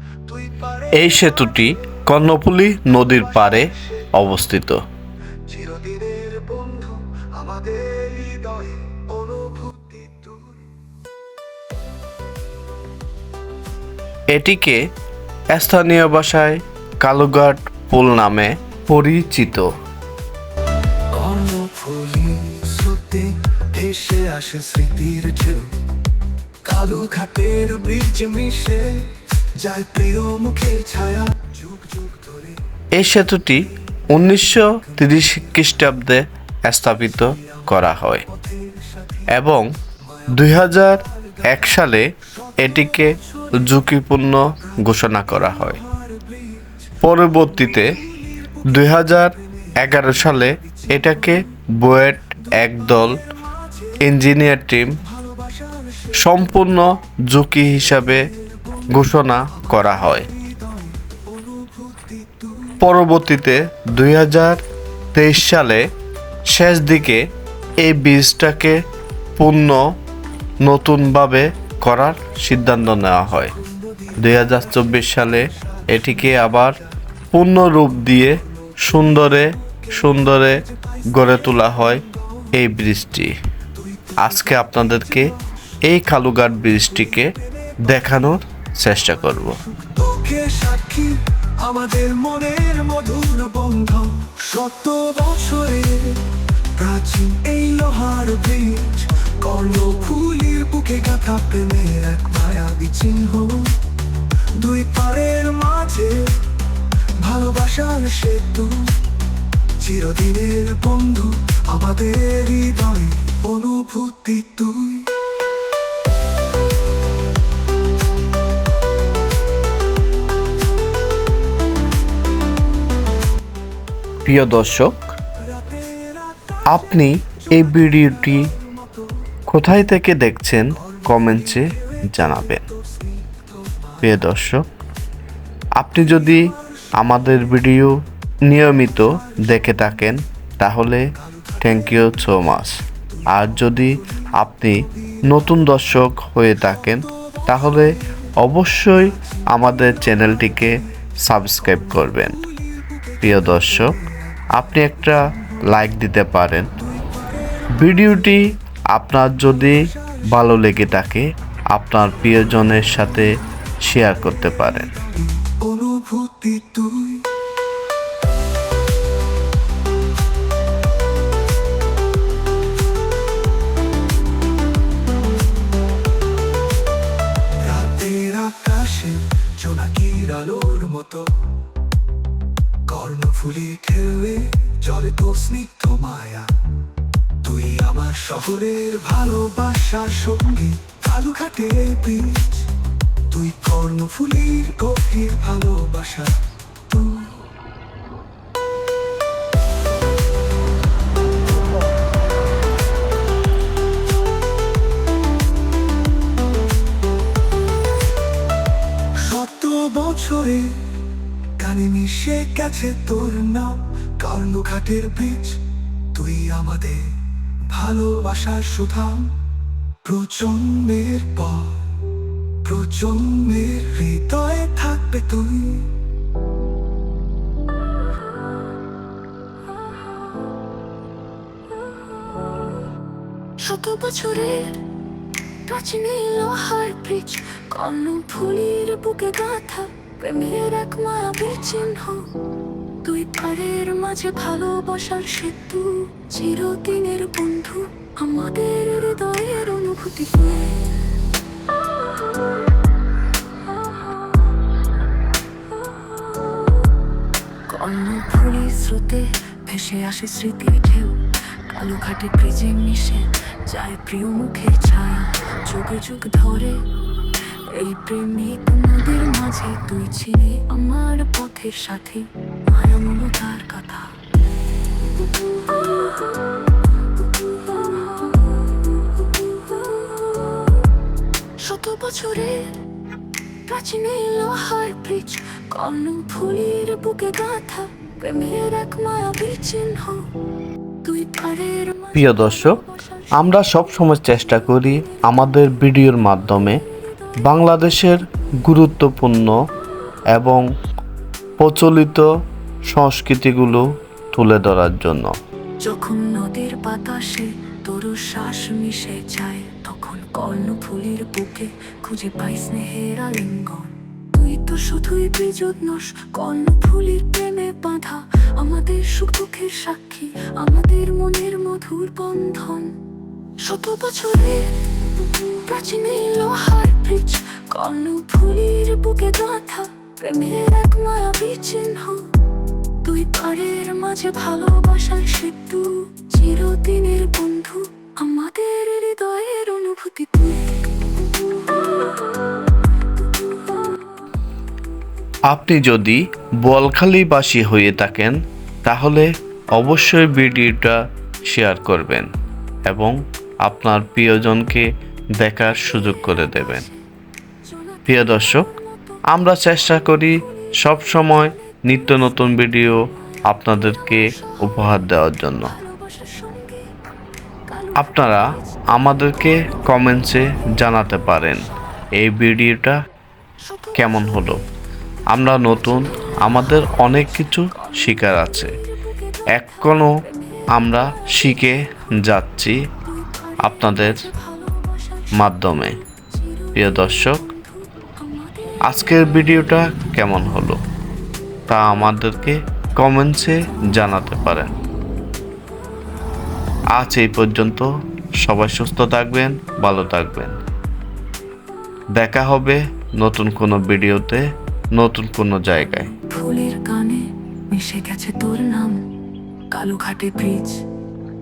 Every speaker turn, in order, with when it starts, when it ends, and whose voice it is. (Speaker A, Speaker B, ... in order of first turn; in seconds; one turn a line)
Speaker A: 0.2-1.7
Speaker B: 0.9-4.8
Speaker A: 3.2-4.1
Speaker A: 5.5-10.6
Speaker B: 14.3-14.9
Speaker B: 15.5-19.7
Speaker A: 21.1-25.8
Speaker A: 26.6-32.6
Speaker B: 32.9-38.2
Speaker A: 38.3-39.3
Speaker B: 39.3-39.7
Speaker B: 40.3-45.8
Speaker A: 42.4-43.6
Speaker A: 45.5-46.8
Speaker B: 47.0-48.0
Speaker A: 47.6-48.6
Speaker B: 48.6-53.2
Speaker A: 50.7-51.1
Speaker A: 53.6-53.9
Speaker B: 54.0-55.0
Speaker A: 55.0-56.1
Speaker B: 56.2-58.3
Speaker B: 58.9-60.3
Speaker A: 59.5-62.8
Speaker B: 62.8-64.6
Speaker B: 65.1-65.9
Speaker B: 66.5-67.3
Speaker B: 67.8-68.8
Speaker B: 69.4-69.9
Speaker B: 70.6-73.5
Speaker A: 73.7-76.8
Speaker B: 74.1-76.8
Speaker B: 77.3-83.3
Speaker A: 80.9-82.1
Speaker A: 83.8-85.3
Speaker B: 84.2-85.3
Speaker B: 85.8-89.6
Speaker A: 89.6-103.8
Speaker A: 104.5-106.4
Speaker A: 107.2-109.0
Speaker A: 109.8-115.1
Speaker B: 124.2-125.1
Speaker A: 125.4-126.7
Speaker B: 126.7-128.5
Speaker A: 127.2-129.1
Speaker B: 129.5-132.7
Speaker A: 130.9-131.8
Speaker A: 132.6-134.0
Speaker B: 134.0-134.7
Speaker B: 135.8-152.4
Speaker A: 152.7-154.4
Speaker B: 153.2-153.9
Speaker B: 154.5-156.7
Speaker A: 156.8-157.8
Speaker B: 157.7-164.9
Speaker A: 165.4-167.3
Speaker A: 177.6-181.3
Speaker A: 182.9-186.5
Speaker A: 187.4-192.7
Speaker A: 193.3-197.4
Speaker A: 209.1-210.9
Speaker A: 211.6-215.6
Speaker A: 216.1-217.1
Speaker A: 217.7-219.3
Speaker A: 220.0-221.8
Speaker A: 222.6-225.9
Speaker C: 231.9-232.8
Speaker C: 233.6-234.8
Speaker C: 235.7-242.3
Speaker C: 243.0-251.0
Speaker C: 253.7-254.6
Speaker C: 255.7-257.0
Speaker C: 257.7-274.1
Speaker C: 275.2-280.9
Speaker C: 281.6-282.8
Speaker C: 283.7-290.3
Speaker C: 291.0-293.5
Speaker B: 292.1-292.8
Speaker B: 293.3-296.8
Speaker B: 297.4-299.6
Speaker B: 300.3-300.6
Speaker B: 301.6-302.3
Speaker B: 302.9-305.3
Speaker C: 305.8-323.0
Speaker C: 323.6-332.3
Speaker C: 333.0-342.6
Speaker C: 343.4-343.9
Speaker B: 345.5-352.3
Speaker B: 352.9-356.9
Speaker C: 355.8-357.0
Speaker C: 357.6-359.2
Speaker B: 358.1-358.7
Speaker B: 359.3-365.8
Speaker C: 359.9-362.1
Speaker C: 363.6-366.9
Speaker C: 367.7-368.9
Speaker B: 367.9-373.0
Speaker C: 373.6-374.6
Speaker B: 373.9-374.6
Speaker B: 375.3-378.8
Speaker C: 375.8-377.2
Speaker C: 377.7-381.6
Speaker B: 379.5-382.9
Speaker C: 383.0-385.5
Speaker B: 383.6-384.3
Speaker B: 385.3-386.0
Speaker C: 386.3-389.1
Speaker B: 386.7-387.5
Speaker B: 388.8-390.8
Speaker B: 391.7-394.7
Speaker B: 396.9-400.6
Speaker B: 402.1-406.1
Speaker C: 406.3-409.0
Speaker C: 409.7-410.8